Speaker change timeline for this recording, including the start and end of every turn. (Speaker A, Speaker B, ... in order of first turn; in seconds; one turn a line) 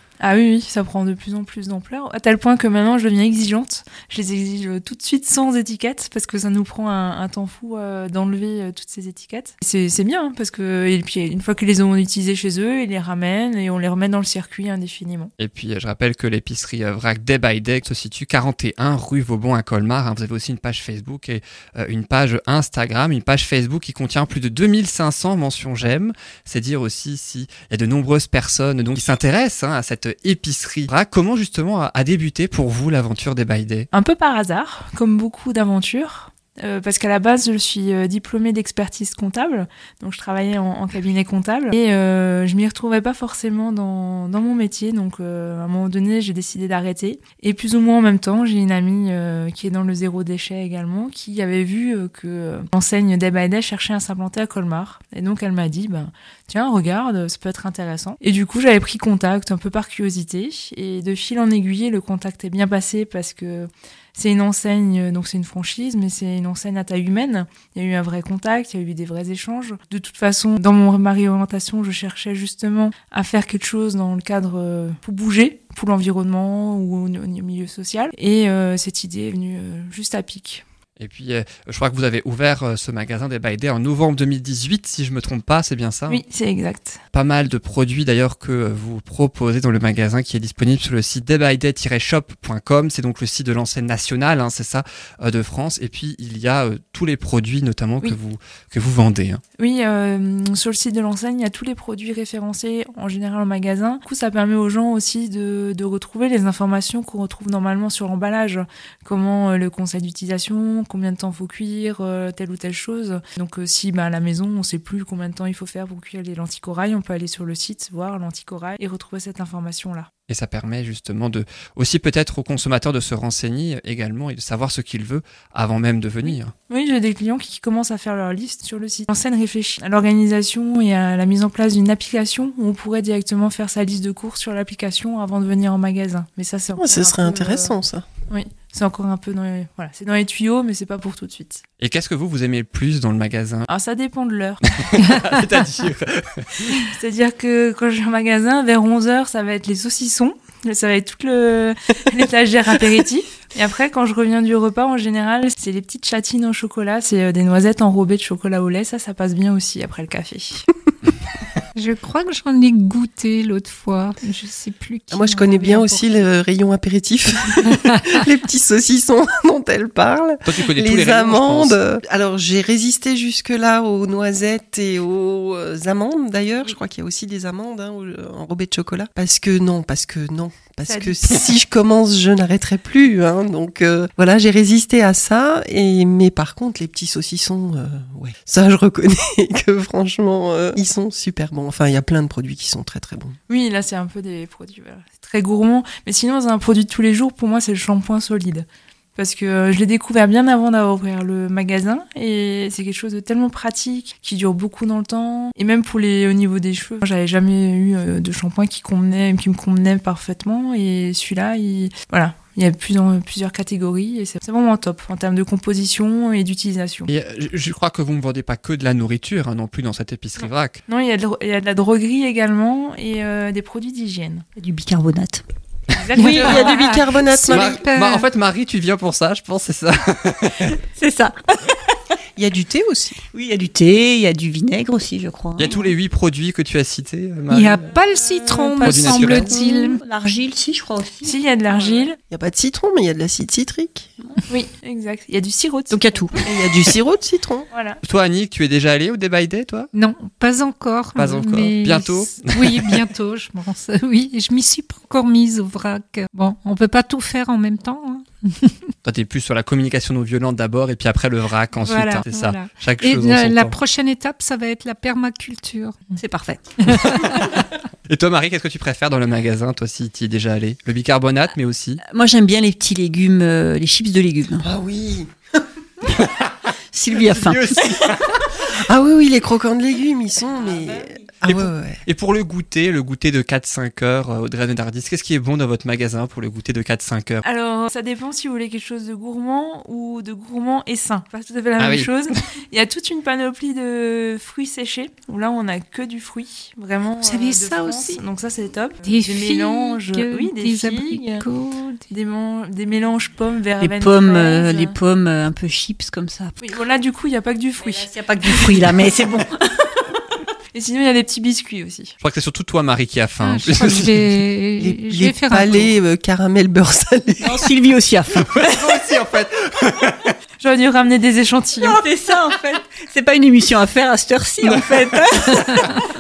Speaker A: 0.2-15.3
Speaker B: 15.4-33.9
Speaker A: 33.9-80.6
Speaker B: 81.0-86.2
Speaker A: 86.1-87.0
Speaker B: 87.1-99.4
Speaker A: 99.6-120.1
Speaker B: 120.3-126.5
Speaker A: 126.2-137.7
Speaker C: 136.8-138.1
Speaker A: 138.3-141.6
Speaker B: 141.8-143.7
Speaker A: 143.7-144.6
Speaker B: 144.7-146.8
Speaker A: 146.8-160.7
Speaker D: 161.8-166.3
Speaker C: 165.1-193.4
Speaker B: 170.4-171.8
Speaker A: 180.9-181.4
Speaker A: 193.5-217.1
Speaker B: 217.1-220.8
Speaker A: 220.4-224.4
Speaker E: 224.6-225.4
Speaker A: 225.9-226.9
Speaker C: 226.2-227.8
Speaker D: 226.2-228.3
Speaker B: 227.4-230.8
Speaker E: 230.9-231.8
Speaker C: 232.4-233.2
Speaker E: 233.3-235.8
Speaker B: 235.6-237.9
Speaker D: 235.7-235.9
Speaker D: 237.5-240.0
Speaker E: 238.5-241.3
Speaker B: 238.8-239.5
Speaker A: 241.2-242.2
Speaker C: 242.3-244.1
Speaker A: 244.5-246.3
Speaker E: 245.9-246.4
Speaker C: 246.4-247.7
Speaker A: 247.7-248.0
Speaker B: 248.0-249.9
Speaker D: 249.9-258.9
Speaker B: 251.2-252.9
Speaker B: 259.0-263.8
Speaker D: 261.8-266.2
Speaker E: 266.2-266.6
Speaker D: 266.8-267.6
Speaker B: 268.1-272.0
Speaker E: 272.1-274.7
Speaker C: 274.6-275.3
Speaker B: 276.1-276.6
Speaker E: 276.9-277.7
Speaker B: 277.3-278.4
Speaker C: 278.6-282.0
Speaker E: 280.6-281.2
Speaker B: 281.5-287.4
Speaker A: 287.4-301.5
Speaker B: 291.8-292.1
Speaker D: 297.2-298.2
Speaker D: 299.0-302.1
Speaker A: 302.1-305.0
Speaker E: 303.8-306.8
Speaker A: 306.6-308.8
Speaker E: 307.8-309.5
Speaker A: 310.7-312.2
Speaker B: 312.2-314.3
Speaker D: 313.4-315.9
Speaker C: 314.8-317.6
Speaker E: 317.4-318.4
Speaker B: 318.5-320.3
Speaker A: 320.6-322.0
Speaker E: 321.8-325.9
Speaker B: 324.6-325.0